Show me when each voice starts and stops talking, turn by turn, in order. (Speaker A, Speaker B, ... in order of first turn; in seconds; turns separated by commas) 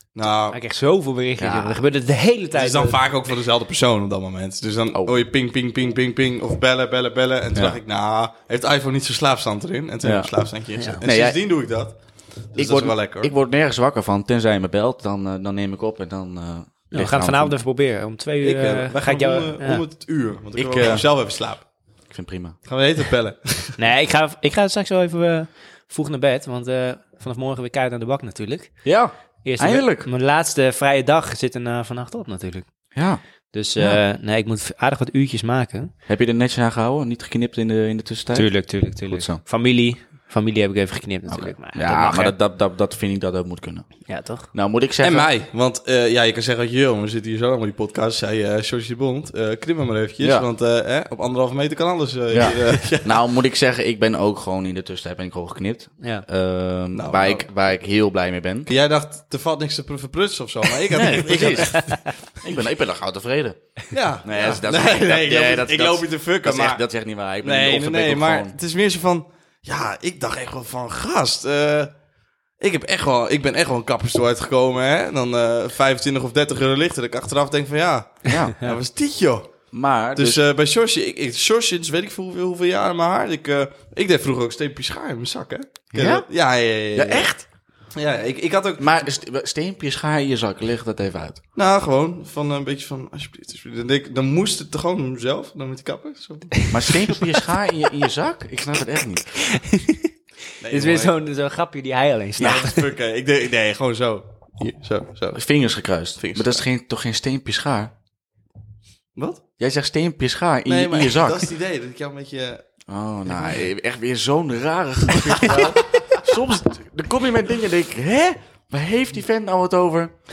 Speaker A: 0.1-0.6, Speaker B: 0.5-3.0, Speaker C: 1.4-1.8, Speaker A: 2.5-12.0, Speaker C: 10.0-10.3, Speaker C: 11.0-11.4, Speaker A: 12.5-13.3, Speaker C: 12.6-17.6, Speaker B: 16.9-19.8, Speaker A: 18.4-21.6, Speaker C: 20.6-21.1, Speaker C: 22.1-22.6, Speaker A: 22.6-23.8, Speaker B: 23.8-28.8, Speaker C: 28.8-30.1, Speaker B: 29.4-32.7, Speaker C: 33.0-33.2, Speaker B: 33.5-35.9, Speaker C: 36.1-39.4, Speaker B: 38.3-42.4, Speaker C: 41.3-43.9, Speaker B: 44.1-44.5, Speaker C: 44.5-45.3, Speaker A: 45.0-53.2, Speaker C: 52.3-58.7, Speaker A: 56.9-57.5, Speaker A: 58.7-62.5, Speaker C: 61.0-63.6, Speaker B: 61.4-62.1, Speaker A: 63.9-66.8, Speaker C: 64.2-68.6, Speaker A: 67.4-71.9, Speaker A: 72.6-79.6, Speaker C: 78.3-78.6, Speaker C: 79.7-80.4, Speaker A: 80.1-87.4, Speaker C: 86.0-86.2, Speaker B: 86.0-86.2, Speaker C: 87.0-87.3, Speaker A: 88.0-89.1, Speaker C: 88.8-91.4, Speaker A: 91.6-96.7, Speaker C: 96.7-99.3, Speaker B: 99.3-100.1, Speaker A: 100.6-101.2, Speaker B: 100.7-102.8, Speaker A: 102.4-105.4, Speaker C: 105.3-107.9, Speaker A: 106.2-106.6, Speaker A: 109.2-109.4, Speaker C: 109.6-111.5, Speaker A: 110.7-112.6, Speaker C: 112.9-120.1, Speaker A: 113.3-113.6, Speaker A: 115.1-116.2